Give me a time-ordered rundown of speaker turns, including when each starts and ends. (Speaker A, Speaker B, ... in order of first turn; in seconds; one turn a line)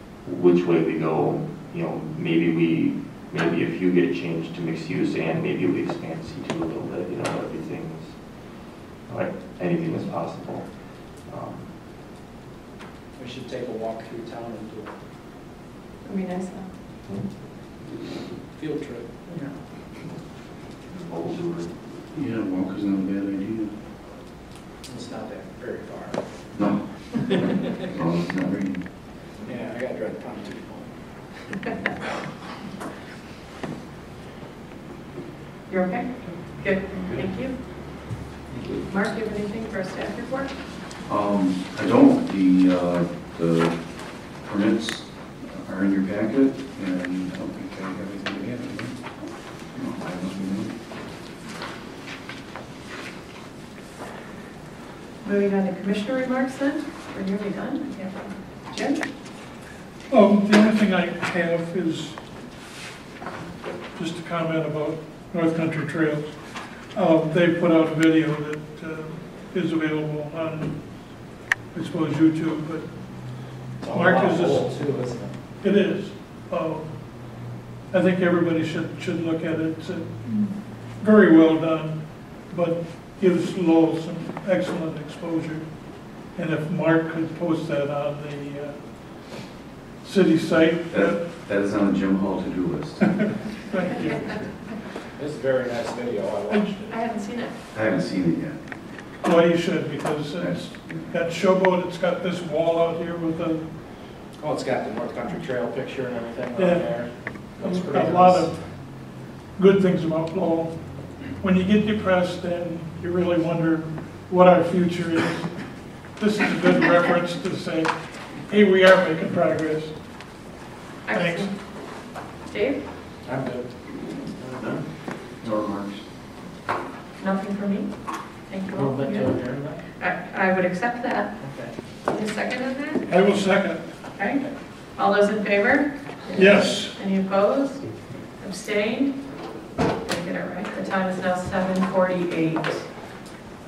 Speaker A: 0.2-8.5
Speaker A: 9.1-11.7
Speaker B: 13.2-15.0
Speaker C: 16.0-16.7
Speaker B: 18.6-19.5
Speaker A: 20.9-21.7
Speaker D: 22.1-23.7
Speaker B: 24.9-26.2
Speaker D: 26.5-28.8
Speaker B: 29.4-30.9
Speaker C: 35.7-37.5
Speaker C: 38.9-40.5
Speaker D: 41.1-43.8
Speaker D: 44.4-49.0
Speaker D: 49.7-50.7
Speaker C: 55.2-59.0
Speaker E: 60.1-62.2
Speaker E: 64.0-66.3
Speaker E: 66.9-71.1
Speaker E: 71.7-72.9
Speaker B: 73.8-75.4
Speaker E: 73.9-74.7
Speaker E: 75.6-85.6
Speaker E: 86.3-88.8
Speaker E: 90.0-91.2
Speaker D: 90.9-93.2
Speaker E: 93.7-94.3
Speaker C: 94.0-94.3
Speaker B: 95.1-97.0
Speaker C: 96.9-97.5
Speaker D: 97.7-98.6
Speaker E: 99.2-103.7
Speaker D: 100.4-101.1
Speaker B: 104.4-108.5
Speaker E: 106.5-106.9
Speaker E: 107.5-115.6
Speaker E: 116.2-117.9
Speaker E: 118.5-120.0
Speaker C: 121.1-121.5
Speaker E: 121.1-121.5
Speaker C: 122.5-122.8
Speaker B: 123.2-123.7
Speaker A: 124.4-124.8
Speaker D: 125.4-126.0
Speaker C: 127.2-127.9
Speaker C: 128.5-129.4
Speaker B: 128.7-129.8
Speaker C: 130.0-131.3
Speaker B: 131.4-131.7
Speaker C: 132.0-133.1
Speaker E: 133.1-133.8
Speaker C: 134.2-134.4
Speaker C: 134.9-139.2
Speaker E: 136.3-136.9
Speaker C: 140.0-142.9